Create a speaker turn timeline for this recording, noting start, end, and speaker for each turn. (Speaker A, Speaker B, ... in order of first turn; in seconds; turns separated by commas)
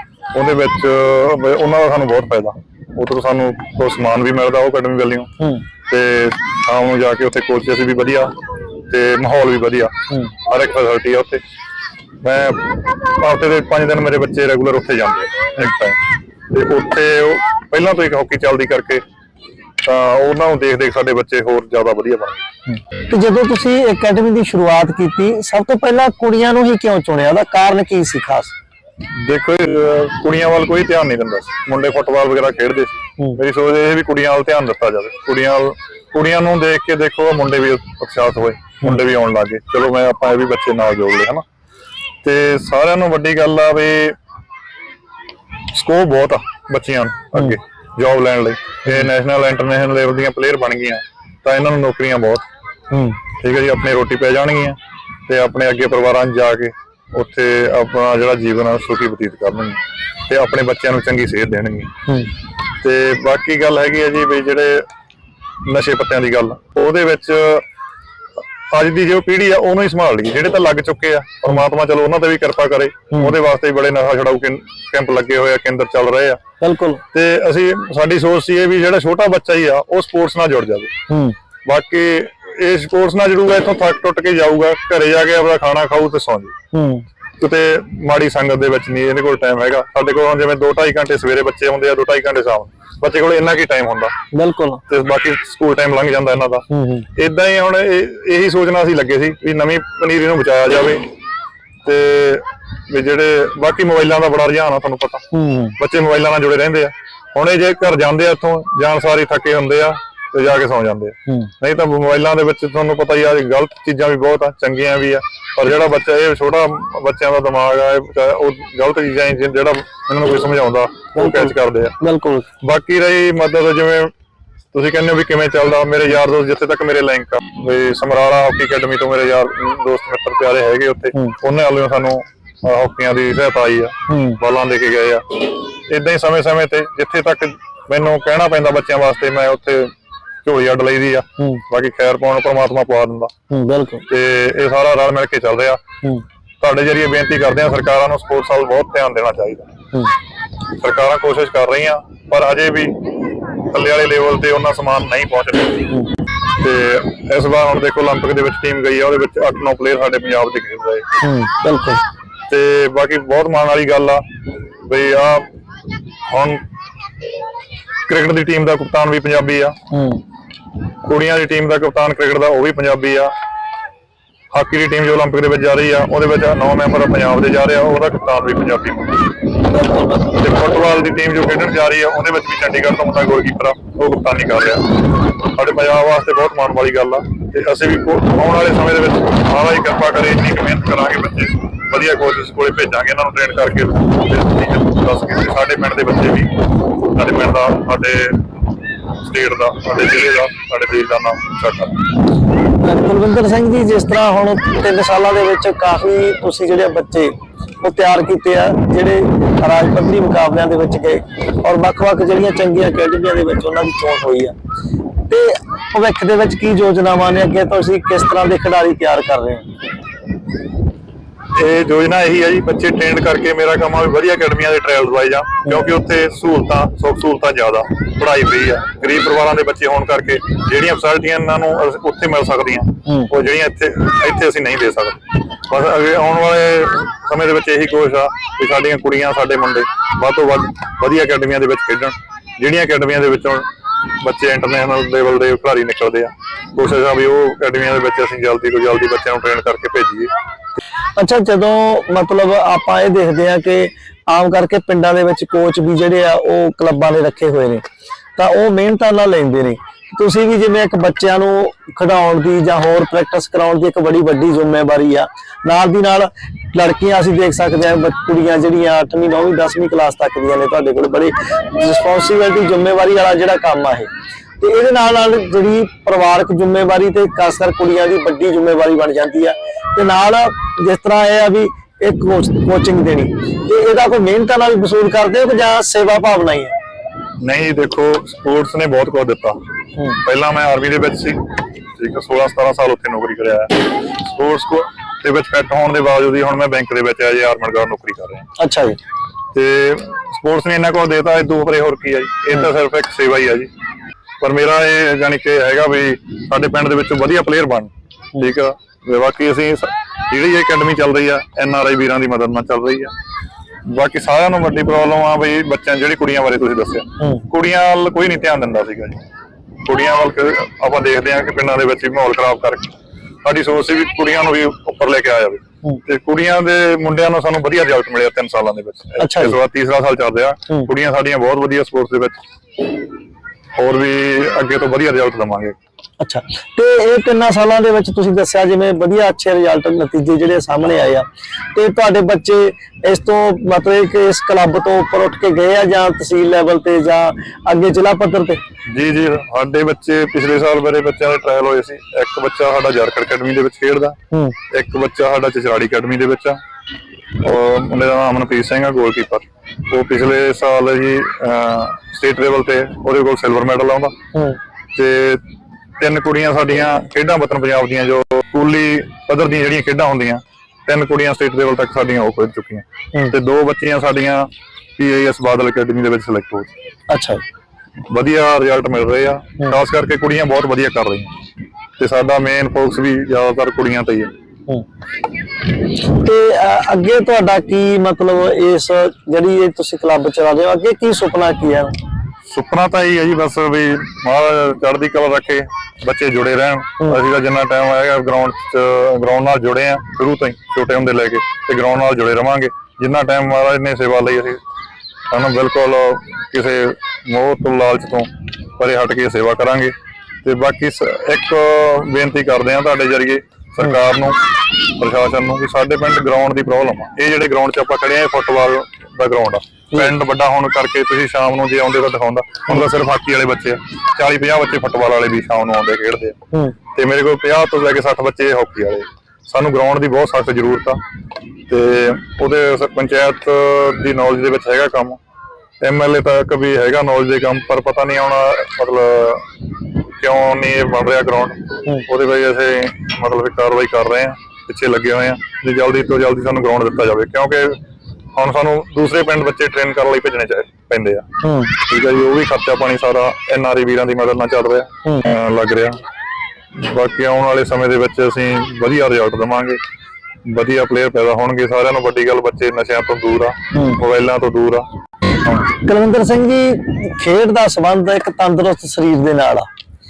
Speaker A: 0.3-5.3, Speaker B: 5.4-5.7, Speaker A: 5.9-8.4, Speaker A: 8.9-11.4, Speaker A: 12.2-16.0, Speaker A: 16.5-19.0, Speaker A: 19.9-22.4, Speaker B: 23.1-28.6, Speaker A: 29.2-41.4, Speaker A: 42.2-44.2, Speaker A: 45.7-52.5, Speaker B: 52.9-53.2, Speaker A: 53.4-61.9, Speaker A: 62.8-64.9, Speaker A: 65.6-67.7, Speaker A: 68.7-76.4, Speaker B: 76.6-77.0, Speaker A: 77.1-80.9, Speaker B: 81.1-81.4, Speaker A: 81.7-86.5, Speaker B: 86.7-87.0, Speaker A: 87.4-94.1, Speaker B: 94.3-94.8, Speaker A: 94.9-101.1, Speaker B: 96.7-97.1, Speaker A: 101.8-105.3, Speaker B: 105.3-105.8, Speaker A: 105.8-122.0, Speaker B: 121.2-122.5, Speaker A: 122.6-124.1, Speaker A: 124.7-139.9, Speaker B: 134.1-134.4, Speaker A: 140.4-143.3, Speaker B: 143.5-144.1, Speaker A: 144.1-145.8, Speaker A: 146.6-149.7, Speaker A: 150.8-153.0, Speaker A: 153.7-155.9, Speaker A: 156.6-161.1, Speaker B: 161.2-162.0, Speaker A: 162.5-164.2, Speaker A: 164.8-165.5, Speaker A: 166.3-166.7, Speaker A: 168.1-169.8, Speaker B: 169.9-170.2, Speaker A: 171.1-173.3, Speaker A: 174.5-179.3, Speaker B: 179.7-180.5, Speaker A: 180.4-198.5, Speaker A: 199.2-202.0, Speaker B: 202.8-214.5, Speaker B: 215.3-219.7, Speaker A: 221.6-243.7, Speaker B: 233.1-233.3, Speaker A: 244.2-250.3, Speaker B: 251.2-257.8, Speaker B: 258.4-286.8, Speaker A: 287.4-289.6, Speaker A: 290.2-291.5, Speaker A: 292.0-298.5, Speaker B: 298.6-299.0, Speaker A: 299.5-303.7, Speaker A: 304.4-313.1, Speaker A: 313.9-319.2, Speaker B: 317.2-317.5, Speaker A: 319.9-322.9, Speaker A: 323.4-332.4, Speaker B: 329.2-329.6, Speaker A: 333.8-335.8, Speaker B: 336.2-348.6, Speaker A: 348.9-354.2, Speaker A: 354.7-356.6, Speaker A: 357.4-364.1, Speaker B: 364.3-364.6, Speaker A: 364.9-365.4, Speaker A: 366.0-376.7, Speaker B: 377.1-377.4, Speaker A: 378.1-381.3, Speaker A: 382.0-384.3, Speaker B: 385.9-391.9, Speaker A: 392.5-404.6, Speaker A: 405.3-426.4, Speaker A: 426.9-431.0, Speaker A: 431.7-435.2, Speaker A: 435.8-439.5, Speaker A: 440.2-447.8, Speaker A: 448.4-456.0, Speaker B: 451.4-451.8, Speaker B: 455.1-455.3, Speaker A: 456.7-459.8, Speaker A: 460.4-464.9, Speaker B: 463.7-464.0, Speaker B: 465.6-469.7